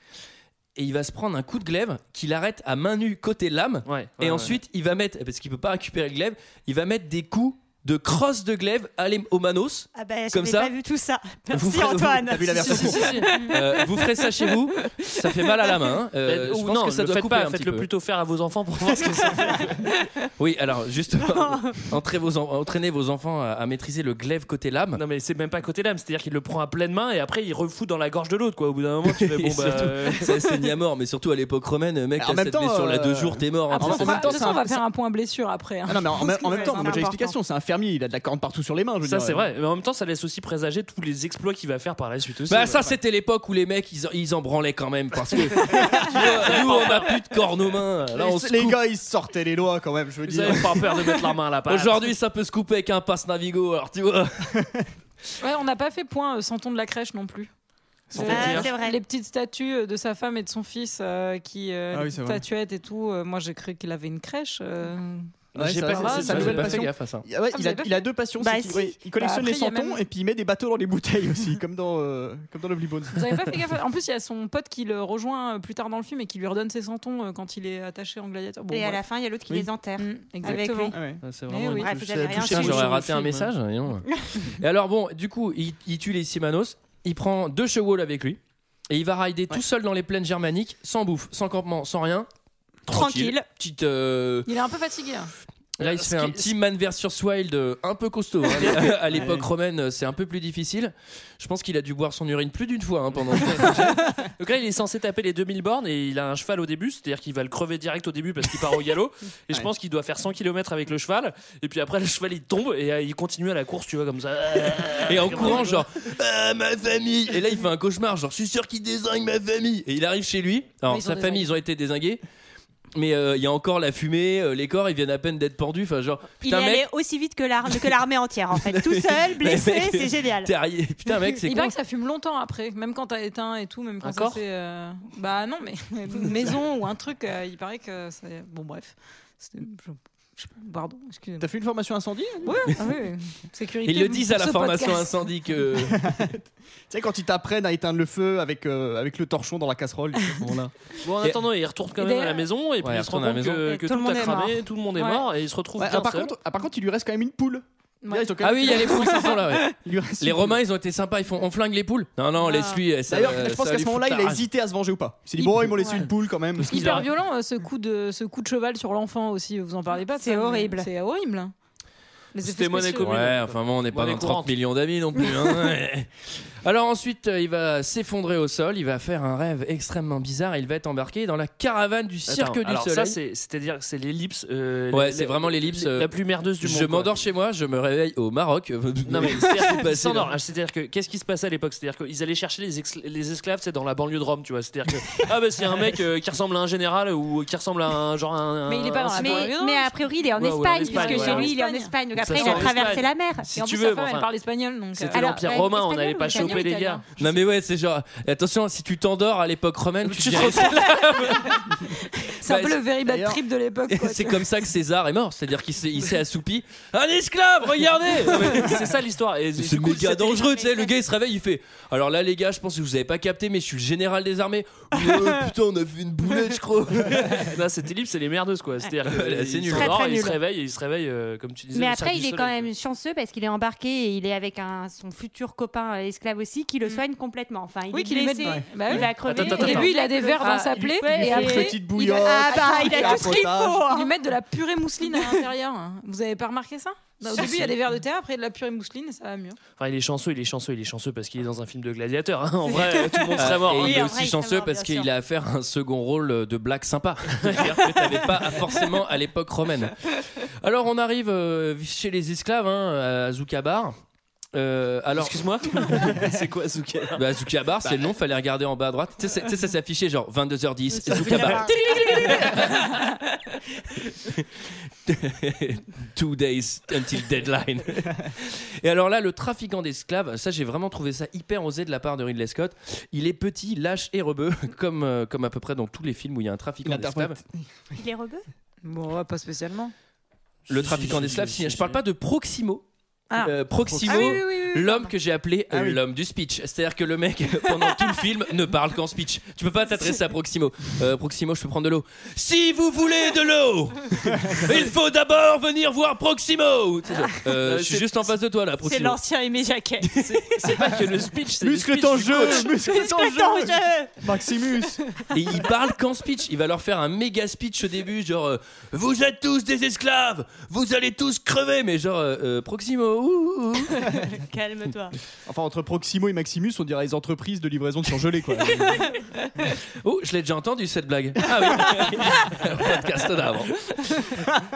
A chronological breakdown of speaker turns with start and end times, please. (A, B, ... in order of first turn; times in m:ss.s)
0:00.8-0:10.7 A
0:03.8-0:04.6 B
0:09.9-0:13.8 C
0:11.5-0:17.9 A
0:12.3-0:13.2 D
0:12.6-0:13.3 B
0:16.2-0:19.8 B
0:20.4-0:25.0 A
0:21.3-0:21.8 C
0:24.9-0:30.3 B
0:29.1-0:34.4 A
0:32.2-0:34.8 D
0:33.7-0:37.3 E
0:35.8-0:39.5 D
0:36.2-0:37.1 C
0:39.0-0:42.9 B
0:42.5-0:48.8 A
0:45.7-0:47.2 B
0:48.1-0:51.0 D
0:50.2-0:52.1 B
0:51.7-0:54.5 A
0:54.5-0:54.8 D
0:55.4-0:57.5 E
0:58.1-0:58.7 D
0:58.1-0:58.7 B
0:58.2-1:06.8 E
0:58.2-0:59.0 C
1:01.9-1:02.4 D
1:05.6-1:13.5 D
1:05.6-1:07.2 A
1:05.6-1:06.8 B
1:07.5-1:08.1 E
1:08.4-1:09.0 C
1:09.1-1:10.0 E
1:13.1-1:19.0 E
1:18.7-1:21.0 C
1:20.0-1:21.9 E
1:20.4-1:21.2 D
1:21.2-1:23.5 B
1:21.7-1:22.9 C
1:21.8-1:22.9 D
1:22.4-1:32.3 A
1:32.8-1:34.5 A
1:32.9-1:33.4 C
1:34.4-1:35.3 E
1:35.8-1:43.8 A
1:35.8-1:36.5 B
1:38.5-1:39.3 B
1:39.1-1:39.5 D
1:43.3-1:55.8 B
1:55.0-2:02.2 A
2:00.8-2:01.5 E
2:02.9-2:06.8 A
2:06.4-2:10.5 C
2:08.6-2:11.7 A
2:11.4-2:21.5 E
2:14.0-2:14.4 B
2:21.4-2:22.7 D
2:22.4-2:25.3 E
2:23.8-2:26.0 A
2:25.9-2:30.7 D
2:31.0-2:36.3 B
2:32.0-2:32.5 E
2:32.8-2:33.6 A
2:33.6-2:34.6 C
2:34.9-2:35.3 E
2:35.8-2:40.6 D
2:38.0-2:39.6 E
2:38.4-2:44.4 A
2:42.5-2:42.7 C
2:43.1-2:46.7 D
2:45.4-2:46.1 E
2:46.6-2:47.1 B
2:46.7-2:51.5 E
2:50.1-2:50.9 C
2:52.3-2:53.2 E
2:52.4-2:54.5 B
2:53.0-3:03.2 A
3:02.3-3:07.2 B
3:04.9-3:06.1 A
3:06.6-3:10.3 A
3:09.1-3:19.5 B
3:18.7-3:20.0 E
3:19.2-3:23.4 C
3:20.4-3:21.6 B
3:20.7-3:23.0 E
3:22.2-3:24.3 B
3:23.5-3:27.4 E
3:25.0-3:27.0 B
3:25.1-3:26.7 C
3:27.2-3:31.4 A
3:30.0-3:31.6 B
3:31.9-3:34.4 E
3:32.4-3:32.8 A
3:33.0-3:33.4 D
3:33.9-3:38.8 A
3:38.0-3:40.6 B
3:39.6-3:47.5 A
3:45.0-3:45.4 C
3:47.1-3:52.7 B
3:49.1-3:49.9 A
3:49.7-3:50.4 C
3:51.7-4:04.1 C
3:57.9-4:09.6 E
3:58.4-3:59.0 D
3:59.2-4:00.0 B
4:00.8-4:03.9 D
4:05.0-4:05.4 C
4:07.3-4:07.7 C
4:09.8-4:14.1 B
4:12.8-4:15.1 C
4:13.4-4:24.0 A
4:17.3-4:18.4 B
4:24.5-4:25.9 A
4:25.2-4:27.2 B
4:25.9-4:26.3 D
4:27.2-4:32.9 A
4:31.1-4:31.7 B
4:31.8-4:32.1 C
4:34.1-4:34.4 A
4:35.0-4:47.4 A
4:46.8-4:48.0 D
4:48.0-4:48.4 C
4:48.8-4:49.9 E
4:50.7-4:52.0 B
4:50.7-4:52.8 A
4:53.4-5:09.2 A
4:53.8-4:54.3 D
4:54.1-4:55.1 E
4:55.7-4:56.0 D
5:07.6-5:08.3 B
5:08.8-5:10.1 C
5:10.0-5:10.3 A
5:10.2-5:12.7 B
5:11.6-5:15.0 D
5:12.7-5:14.2 C
5:15.3-5:24.0 A
5:24.1-5:25.2 C
5:25.4-5:29.1 D
5:30.0-5:34.4 A